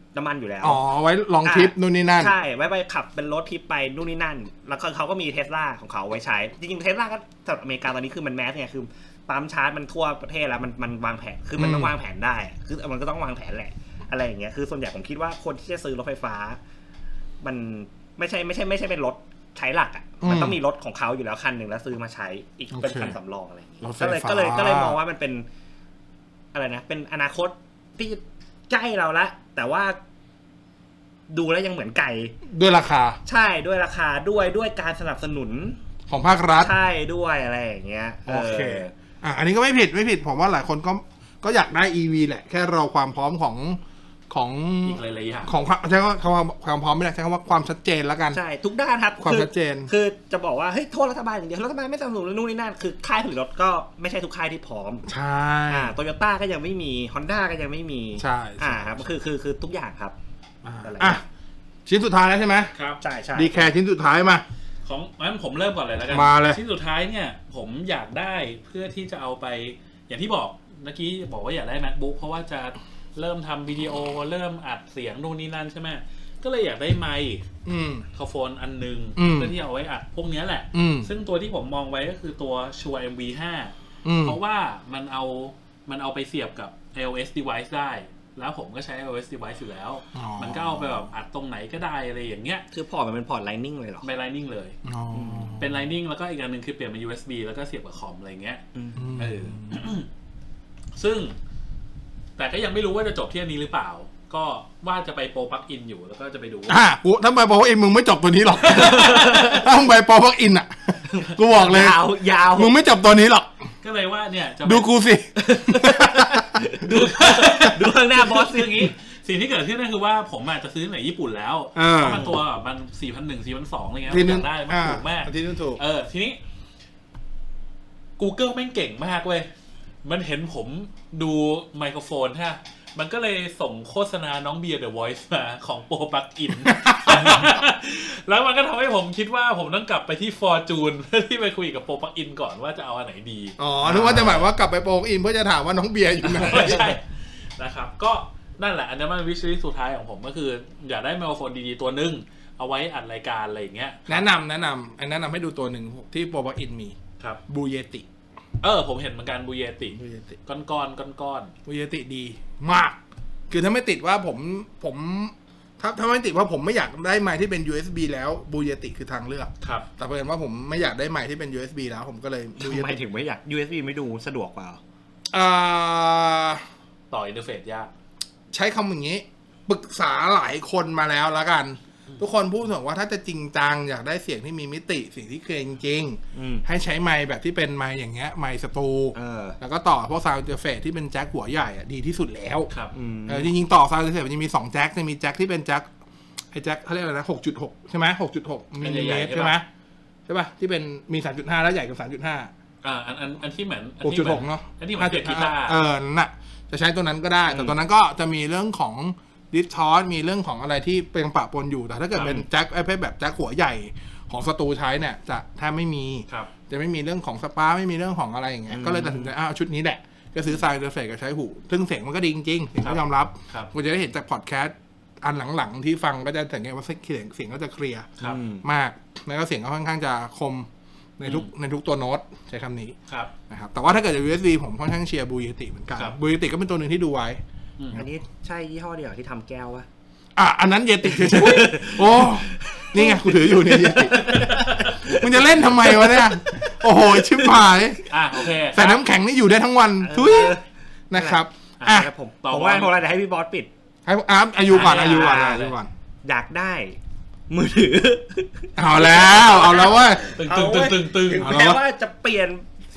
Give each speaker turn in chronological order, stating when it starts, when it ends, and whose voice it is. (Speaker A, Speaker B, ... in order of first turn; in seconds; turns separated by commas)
Speaker A: 0.1-0.8, Speaker B: 0.6-2.3, Speaker A: 1.4-16.6, Speaker B: 11.6-11.9, Speaker A: 17.4-25.5, Speaker B: 20.2-20.6, Speaker B: 22.7-23.2, Speaker B: 23.8-25.0, Speaker A: 26.5-30.0, Speaker A: 31.3-32.4, Speaker B: 32.5-33.2, Speaker A: 33.3-35.8, Speaker B: 36.1-36.7, Speaker A: 36.6-38.9, Speaker B: 38.3-48.4, Speaker C: 44.9-45.5, Speaker A: 48.3-55.1, Speaker B: 49.2-49.9, Speaker B: 55.1-55.9, Speaker A: 55.7-60.2, Speaker B: 58.2-59.0, Speaker B: 60.6-61.2, Speaker A: 60.8-61.2, Speaker B: 61.9-62.7, Speaker C: 62.8-63.0, Speaker A: 63.0-63.7, Speaker B: 63.4-64.4, Speaker C: 64.8-77.4, Speaker B: 66.1-66.6, Speaker B: 77.7-78.0, Speaker C: 78.2-92.7, Speaker B: 79.2-79.5, Speaker B: 80.7-81.1, Speaker B: 84.0-84.4, Speaker B: 90.2-91.0, Speaker A: 92.7-94.1, Speaker C: 94.0-94.8, Speaker B: 94.8-95.8, Speaker A: 95.1-95.6, Speaker C: 95.6-98.6, Speaker A: 98.8-99.0, Speaker B: 99.0-99.8, Speaker C: 99.1-100.1, Speaker C: 101.0-101.4, Speaker C: 102.4-106.8, Speaker B: 106.7-113.5, Speaker C: 108.6-109.6, Speaker A: 108.6-109.7, Speaker A: 111.1-112.7, Speaker C: 113.8-114.9, Speaker B: 114.7-116.6, Speaker A: 115.4-118.9, Speaker C: 116.9-126.4, Speaker B: 121.8-122.4, Speaker B: 124.1-125.8, Speaker C: 128.2-129.5, Speaker C: 130.0-144.5, Speaker B: 136.7-137.4, Speaker B: 143.6-147.0, Speaker C: 146.3-154.2, Speaker B: 154.1-157.0, Speaker B: 157.5-158.1, Speaker C: 158.6-161.5, Speaker B: 160.0-160.4, Speaker B: 161.7-163.0, Speaker B: 163.5-173.0, Speaker C: 169.6-169.9, Speaker A: 172.6-174.8, Speaker B: 175.3-176.7, Speaker C: 177.1-177.9, Speaker B: 178.5-192.7, Speaker A: 186.3-186.7, Speaker A: 189.1-189.6, Speaker A: 192.9-193.5, Speaker B: 193.3-195.9, Speaker B: 196.5-199.7, Speaker C: 198.8-199.6, Speaker B: 200.3-202.5, Speaker C: 202.8-205.8, Speaker B: 204.0-230.7, Speaker C: 212.2-212.5, Speaker A: 218.7-219.3, Speaker C: 222.8-223.7, Speaker A: 228.2-228.6, Speaker B: 231.2-233.0, Speaker C: 231.2-231.5, Speaker B: 233.5-237.4, Speaker A: 237.9-239.9, Speaker B: 240.4-248.1, Speaker A: 241.0-246.2, Speaker C: 244.2-245.0, Speaker A: 247.0-247.6, Speaker C: 248.1-249.0, Speaker B: 248.7-250.6, Speaker A: 250.0-253.7, Speaker B: 251.1-252.1, Speaker C: 251.8-253.0, Speaker B: 254.1-255.9, Speaker C: 254.7-255.8, Speaker A: 254.8-255.7, Speaker A: 256.2-257.0, Speaker A: 257.5-262.7, Speaker B: 258.8-260.3, Speaker C: 260.4-261.6, Speaker B: 261.4-261.8